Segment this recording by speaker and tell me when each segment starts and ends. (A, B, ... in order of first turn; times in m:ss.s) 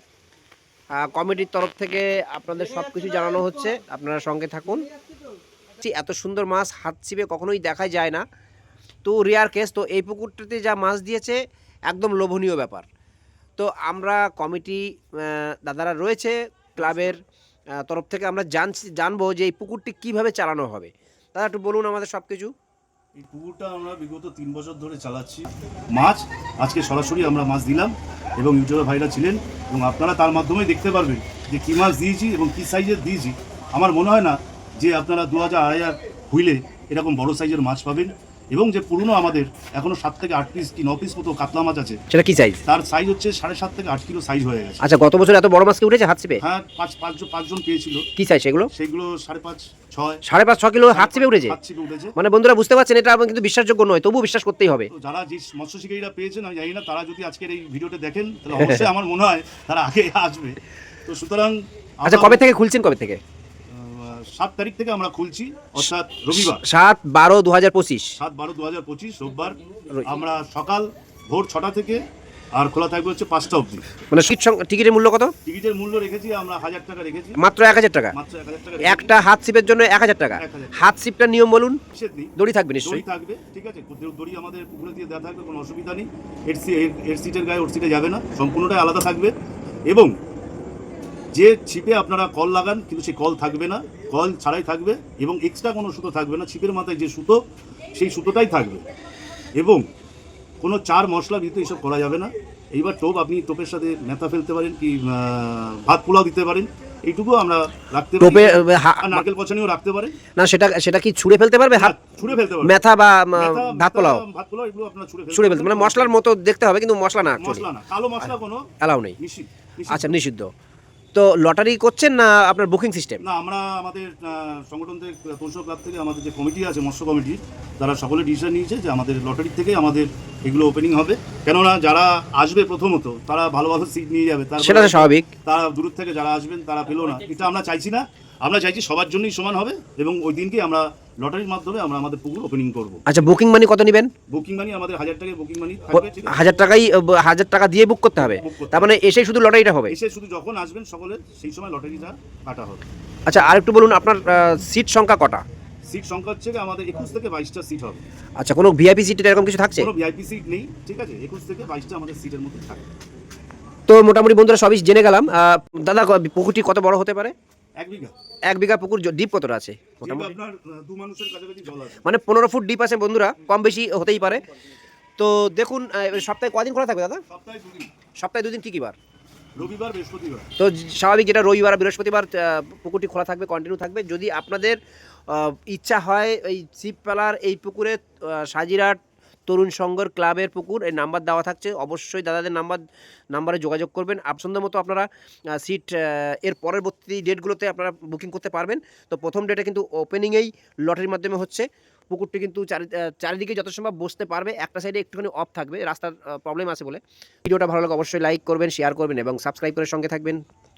0:01.0-0:04.9 A
0:05.8-0:08.2 A
0:09.0-0:11.4 A
0:11.9-0:12.9 A
0:13.6-0:17.2 A
0:16.8-0:17.1 B
0:17.8-0:22.5 A
0:23.2-0:42.0 B
0:42.1-0:42.6 A
0:42.7-0:44.8 B
0:44.8-0:46.4 A
0:46.4-0:48.0 B
0:48.2-0:48.7 A
0:48.7-0:50.2 B
0:50.3-0:51.6 A
0:50.9-0:52.1 B
0:52.2-0:54.9 A
0:54.9-1:02.4 B
0:58.6-0:58.9 A
1:02.0-1:03.2 A
1:03.7-1:06.6 B
1:05.8-1:08.2 A
1:08.2-1:12.0 B
1:09.9-1:10.2 A
1:12.6-1:13.8 B
1:14.1-1:15.3 A
1:15.4-1:17.4 B
1:17.4-1:18.2 A
1:18.1-1:19.1 B
1:18.8-1:21.8 A
1:20.4-1:20.7 B
1:21.9-1:29.3 B
1:22.4-1:23.0 A
1:29.9-1:30.1 B
1:31.3-1:37.4 B
1:38.0-1:38.8 B
1:39.6-1:39.9 B
1:40.6-1:50.2 B
1:48.2-1:49.2 A
1:50.4-1:52.0 A
1:51.7-1:52.7 B
1:52.6-1:54.2 A
1:53.3-1:56.1 B
1:55.3-1:57.6 A
1:57.4-1:58.6 B
1:58.8-1:59.2 A
1:59.2-2:00.2 B
1:59.9-2:00.5 A
2:01.2-2:03.2 A
2:03.2-2:23.0 B
2:14.6-2:15.3 A
2:23.1-2:24.1 A
2:24.3-2:26.4 B
2:25.9-2:30.0 A
2:28.4-2:28.9 B
2:29.9-2:32.8 B
2:33.3-2:35.4 A
2:35.9-2:38.0 B
2:38.4-2:39.9 A
2:39.8-2:42.9 B
2:43.9-2:47.3 A
2:47.8-2:48.1 B
2:48.5-2:50.4 A
2:50.0-2:52.0 B
2:52.0-2:54.4 A
2:55.2-2:57.2 A
2:57.3-2:57.9 B
2:58.2-2:59.0 A
2:59.6-3:00.5 B
3:00.6-3:30.4 A